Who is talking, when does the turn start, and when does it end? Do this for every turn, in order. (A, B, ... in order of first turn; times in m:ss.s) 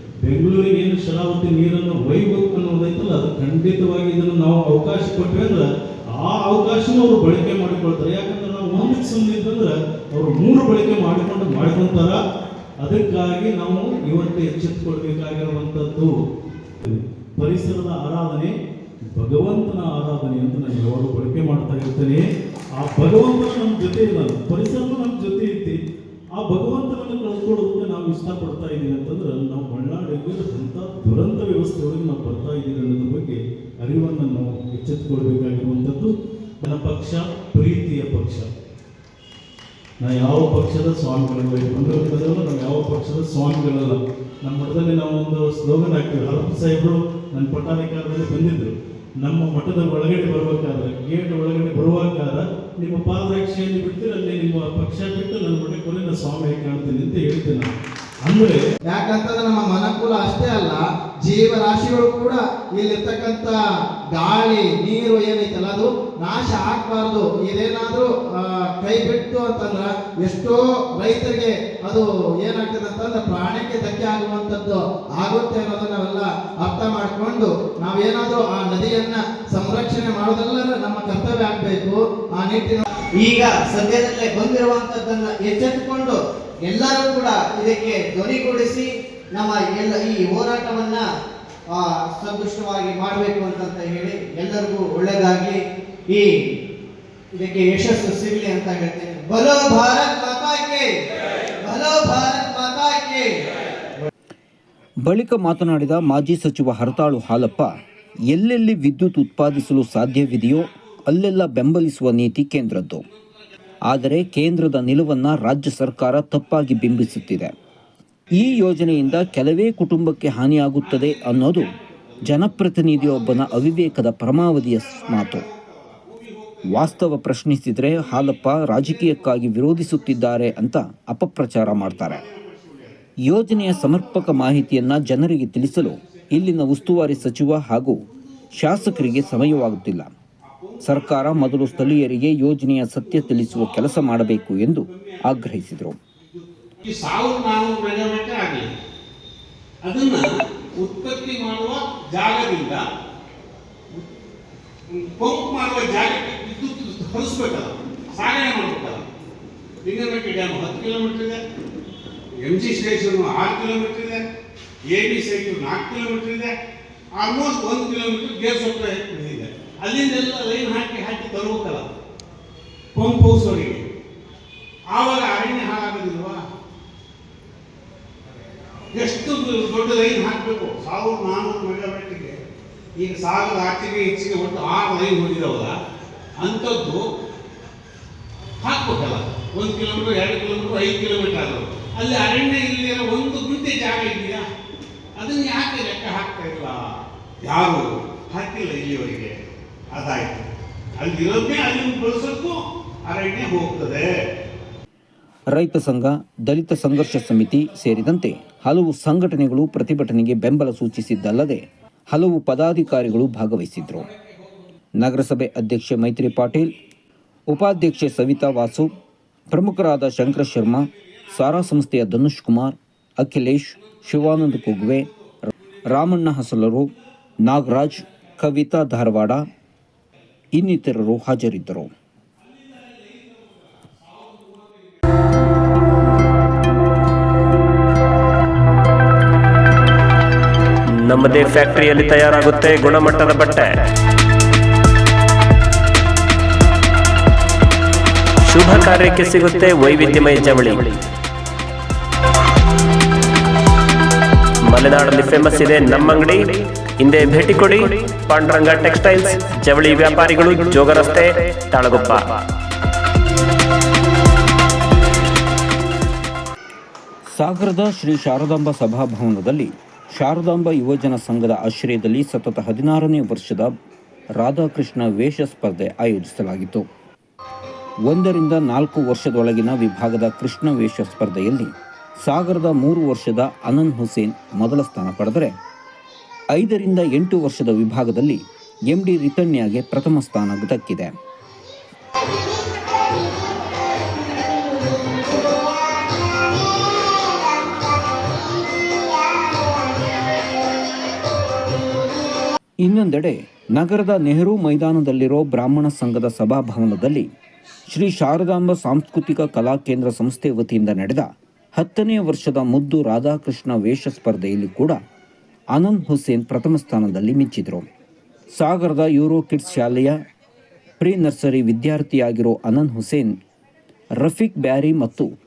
0:00.2-0:12.2 A
0:12.8-0:16.2 A
0:16.8-0:18.5 A
0:19.1-0:25.8 A
0:26.3-0:38.5 A
0:40.0-0:57.7 A
0:58.2-0:58.6 A
0:58.9-1:03.5 B
1:04.1-1:22.8 B
1:23.2-1:26.2 C
1:26.7-1:31.0 C
1:31.8-1:35.6 C
1:37.4-1:40.9 C
1:41.6-1:43.3 C
1:45.1-1:47.7 D
1:48.3-1:53.0 D
1:53.9-1:57.5 D
1:58.3-2:01.7 D
2:02.2-2:05.4 D
2:05.0-2:06.9 E
2:06.7-2:12.2 D
2:11.7-2:13.0 E
2:13.2-2:18.0 D
2:18.6-2:20.1 D
2:20.4-2:22.0 E
2:20.8-2:26.0 D
2:23.2-2:25.5 E
2:26.3-2:28.7 E
2:29.8-2:30.2 E
2:30.8-2:32.8 E
2:34.9-2:39.0 E
2:39.8-2:41.4 E
2:42.4-2:44.2 E
2:44.9-2:46.6 E
2:47.2-2:51.9 E
2:52.9-2:53.8 E
2:54.9-2:56.4 E
2:58.9-3:02.3 E
3:03.0-3:05.7 E
3:06.4-3:07.0 E
3:08.6-3:14.4 E
3:15.2-3:16.8 E
3:17.4-3:19.4 E
3:19.9-3:20.5 E
3:21.0-3:24.1 E
3:25.5-3:34.1 D
3:35.0-3:36.8 D
3:37.5-3:38.9 D
3:39.5-3:45.1 D
3:45.9-3:46.9 D
3:47.4-3:49.5 D
3:50.5-3:51.9 D
4:01.0-4:03.8 F
4:08.4-4:10.9 F
4:14.7-4:22.2 F
4:27.3-4:33.7 D
4:34.4-4:36.8 D
4:38.1-4:41.7 D
4:42.2-4:45.5 D
4:46.5-4:51.1 D
5:02.8-5:07.3 D
5:07.9-5:15.0 D
5:15.7-5:17.9 D
5:18.6-5:20.2 D
5:21.0-5:23.3 D
5:24.2-5:25.3 D